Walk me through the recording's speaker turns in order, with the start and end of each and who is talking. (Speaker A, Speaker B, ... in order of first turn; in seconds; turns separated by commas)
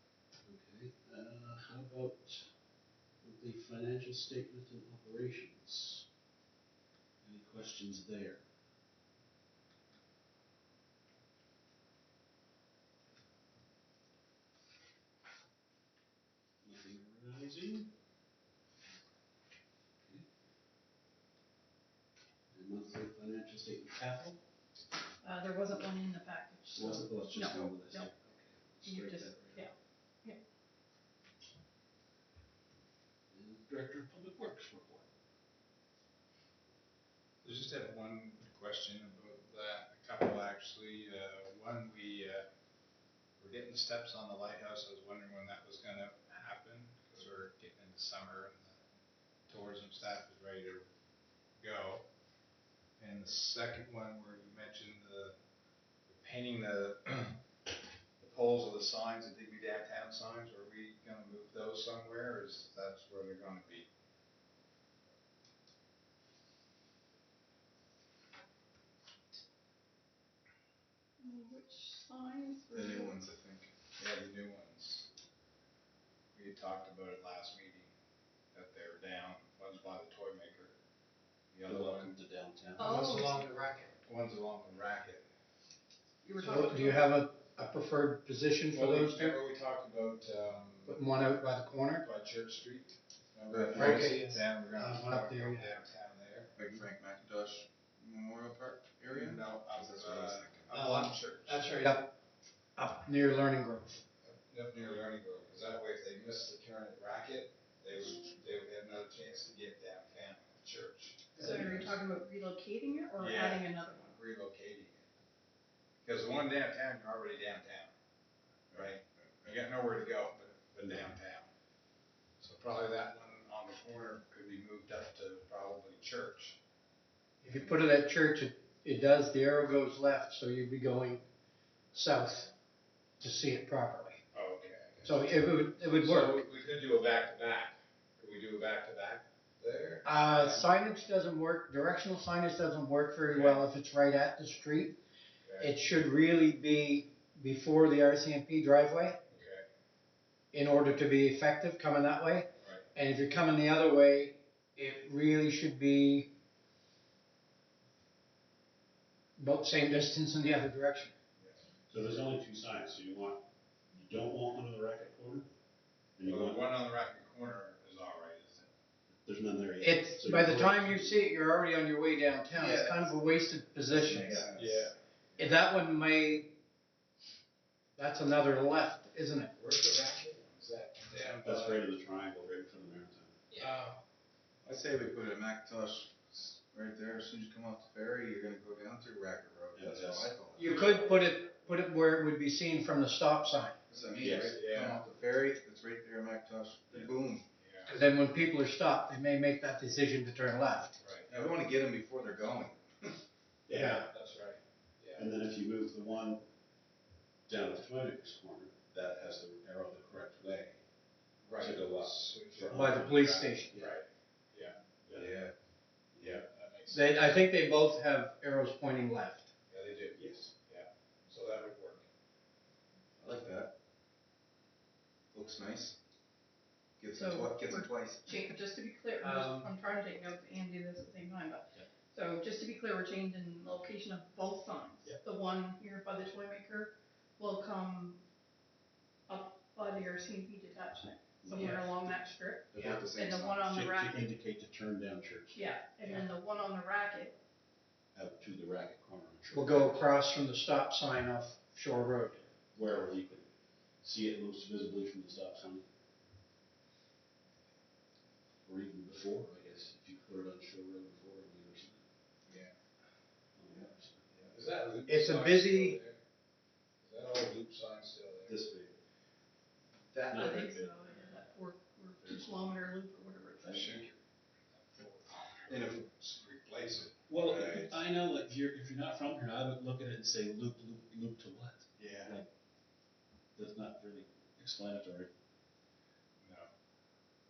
Speaker A: 0.4-2.6, Speaker A: 3.2-6.1, Speaker A: 7.2-8.4, Speaker A: 16.6-17.9, Speaker A: 22.5-24.4, Speaker B: 25.2-28.1, Speaker A: 26.7-29.7, Speaker B: 28.8-30.4, Speaker A: 33.3-35.1, Speaker C: 37.4-42.5, Speaker C: 43.4-48.8, Speaker C: 49.5-50.9, Speaker C: 51.6-52.0, Speaker C: 53.0-55.4, Speaker C: 56.1-57.4, Speaker C: 58.2-63.9, Speaker B: 71.2-73.2, Speaker D: 72.7-73.7, Speaker C: 73.9-75.1, Speaker C: 76.3-77.9, Speaker C: 78.5-80.8, Speaker C: 81.5-82.1, Speaker A: 81.6-83.3, Speaker B: 82.8-83.4, Speaker E: 82.8-84.0, Speaker C: 84.0-85.2, Speaker B: 86.2-87.1, Speaker E: 86.4-89.4, Speaker C: 88.7-91.4, Speaker E: 90.9-92.1, Speaker C: 92.0-96.5, Speaker D: 93.5-94.1, Speaker E: 93.7-95.7, Speaker D: 96.6-100.8, Speaker C: 99.1-101.9, Speaker E: 100.7-102.1, Speaker E: 102.8-104.0, Speaker C: 104.2-111.8, Speaker E: 111.4-111.9, Speaker B: 111.4-114.2, Speaker C: 113.2-115.1, Speaker C: 116.0-117.9, Speaker C: 118.7-121.5, Speaker C: 122.4-126.6, Speaker C: 127.4-127.7, Speaker E: 127.4-131.2, Speaker E: 131.9-132.5, Speaker E: 133.2-134.2, Speaker C: 134.3-140.7, Speaker E: 135.0-136.4, Speaker E: 140.0-145.0, Speaker C: 143.3-143.7, Speaker C: 145.4-145.7, Speaker E: 145.6-149.2, Speaker C: 149.3-149.7, Speaker E: 150.5-156.3, Speaker C: 152.6-152.9, Speaker E: 159.4-161.2, Speaker C: 161.4-161.6, Speaker A: 161.9-165.5, Speaker A: 166.2-166.7, Speaker C: 166.2-168.7, Speaker A: 169.2-171.3, Speaker E: 169.8-174.6, Speaker D: 172.5-174.9, Speaker C: 174.3-174.9, Speaker E: 175.4-176.6, Speaker E: 178.0-179.5, Speaker C: 179.5-181.9, Speaker A: 181.4-183.4, Speaker C: 183.5-184.0, Speaker D: 184.6-190.7, Speaker A: 189.8-190.3, Speaker E: 190.6-193.8, Speaker C: 190.6-191.4, Speaker D: 193.9-197.5, Speaker A: 194.2-194.6, Speaker C: 194.4-195.0, Speaker C: 197.6-198.0, Speaker E: 197.9-201.0, Speaker C: 201.0-201.3, Speaker D: 201.3-203.2, Speaker A: 203.7-204.1, Speaker C: 203.7-205.3, Speaker A: 205.2-206.5, Speaker A: 207.5-210.8, Speaker C: 211.4-214.8, Speaker A: 211.6-214.0, Speaker E: 212.7-213.8, Speaker A: 215.1-215.4, Speaker D: 215.1-215.5, Speaker C: 216.2-217.4, Speaker E: 216.9-219.5, Speaker C: 219.7-222.1, Speaker D: 223.2-223.7, Speaker D: 225.3-226.0, Speaker D: 227.0-228.3, Speaker B: 227.1-238.2, Speaker E: 229.2-229.7, Speaker B: 239.3-244.3, Speaker A: 241.4-242.1, Speaker D: 242.7-243.6, Speaker A: 242.7-246.2, Speaker B: 245.5-247.4, Speaker A: 248.1-250.1, Speaker E: 249.6-252.4, Speaker A: 252.7-253.5, Speaker A: 254.0-255.9, Speaker A: 258.6-262.0, Speaker C: 262.5-262.8, Speaker A: 263.6-264.4, Speaker C: 264.4-266.2, Speaker E: 265.1-266.0, Speaker C: 267.0-268.6, Speaker A: 268.5-268.9, Speaker A: 270.1-271.1, Speaker B: 270.3-274.0, Speaker A: 272.2-272.9, Speaker A: 273.6-274.1, Speaker C: 273.7-274.1, Speaker C: 274.7-277.9, Speaker A: 277.3-282.5, Speaker C: 282.0-282.4, Speaker A: 283.6-285.3, Speaker C: 286.4-286.7